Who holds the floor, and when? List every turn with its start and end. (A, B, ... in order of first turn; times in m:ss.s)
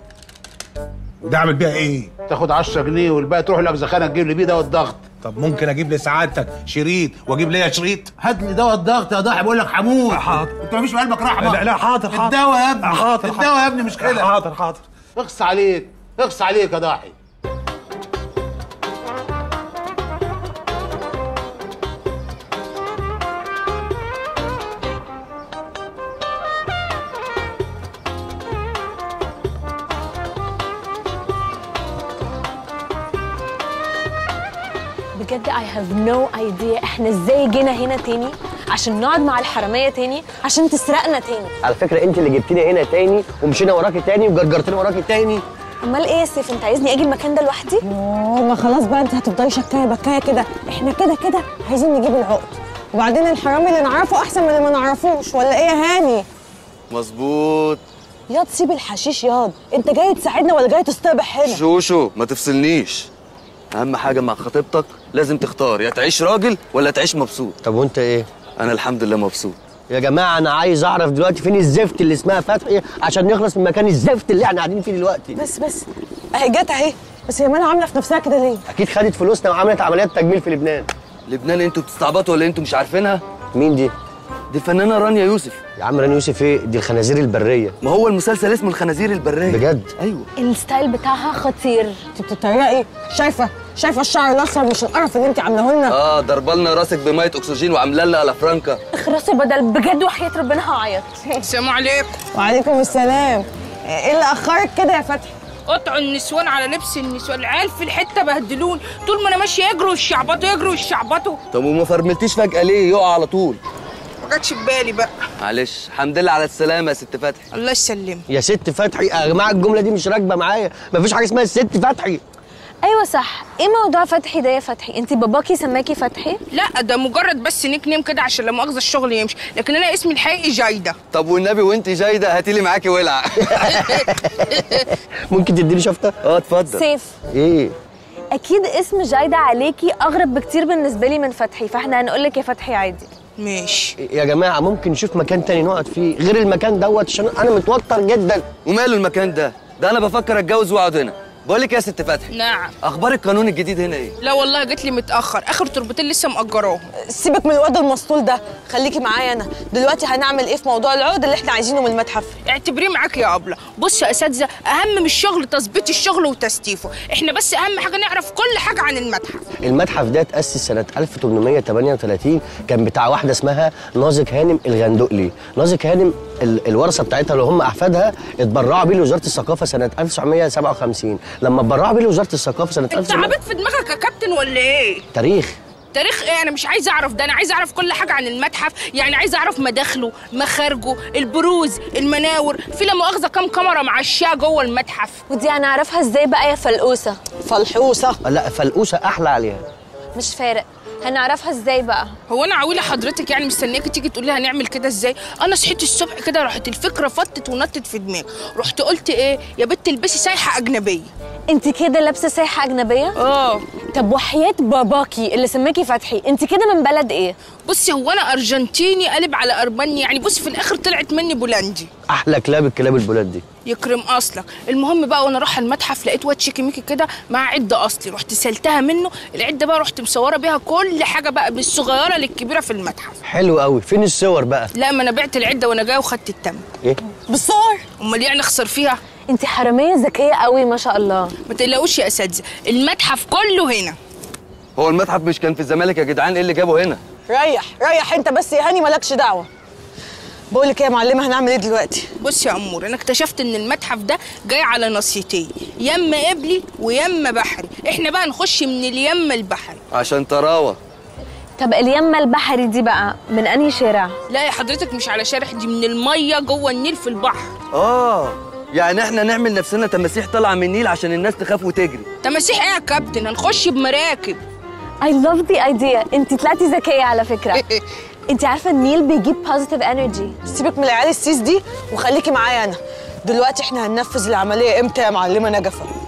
0:01.2-0:02.1 A
0:02.3-0:05.0 B
0:05.2-0:08.1 A
0:08.2-0:14.3 B
0:10.1-0:10.5 A
0:11.4-0:14.8 A
0:15.2-0:17.1 B
0:35.1-0:41.5 C
0:40.5-0:41.0 D
0:41.6-0:45.4 E
0:45.8-0:47.8 C
0:47.8-0:56.2 D
0:56.9-0:57.8 F
0:58.3-1:01.6 D
1:01.4-1:03.1 F
1:03.7-1:07.6 F
1:07.6-1:08.3 E
1:08.6-1:09.6 F
1:09.9-1:15.4 E
1:15.4-1:18.6 D
1:18.7-1:20.9 E
1:21.3-1:23.2 F
1:23.5-1:23.9 E
1:24.5-1:25.6 F
1:25.8-1:27.7 E
1:27.8-1:30.3 F
1:29.5-1:29.9 E
1:30.4-1:32.0 C
1:32.1-1:36.0 D
1:35.9-1:38.8 F
1:38.9-1:41.2 C
1:41.4-1:42.1 G
1:42.3-1:45.3 D
1:45.7-1:51.4 G
1:51.5-1:53.6 F
1:54.2-1:55.1 G
1:55.4-1:57.4 F
1:57.5-1:58.2 G
1:58.3-2:02.2 E
2:02.8-2:06.4 C
2:06.5-2:11.0 G
2:11.1-2:14.0 F
2:13.5-2:14.5 E
2:15.3-2:16.1 E
2:16.2-2:16.8 F
2:16.7-2:17.1 C
2:17.3-2:17.7 E
2:18.3-2:23.1 C
2:23.4-2:23.9 G
2:24.0-2:28.4 E
2:28.6-2:34.1 F
2:32.3-2:32.7 G
2:34.2-2:36.9 G
2:37.0-2:42.3 D
2:42.4-2:49.4 G
2:49.6-3:03.4 E
3:02.9-3:05.0 G
3:05.1-3:05.5 E
3:05.9-3:15.2 G
3:15.3-3:17.2 C
3:17.4-3:18.2 D
3:18.2-3:19.6 E
3:20.1-3:22.1 C
3:22.3-3:31.1 G
3:31.5-3:33.2 C
3:33.2-3:33.6 G
3:33.9-3:37.4 C
3:37.6-3:41.9 G
3:42.1-3:43.4 E
3:43.6-3:53.2 G
3:53.2-3:54.7 E
3:54.7-3:56.6 G
3:57.3-3:57.8 D
3:58.0-3:59.0 G
3:59.3-4:01.3 C
4:01.5-4:04.0 G
4:04.8-4:07.0 F
4:07.3-4:09.5 D
4:10.5-4:12.1 D
4:12.2-4:19.8 G
4:19.9-4:20.8 F
4:21.6-4:24.2 C
4:24.3-4:27.5 G
4:27.7-4:32.1 F
4:32.2-4:34.4 G
4:35.0-4:37.6 C
4:37.6-4:37.8 G
4:38.3-4:40.4 C
4:40.5-4:45.9 D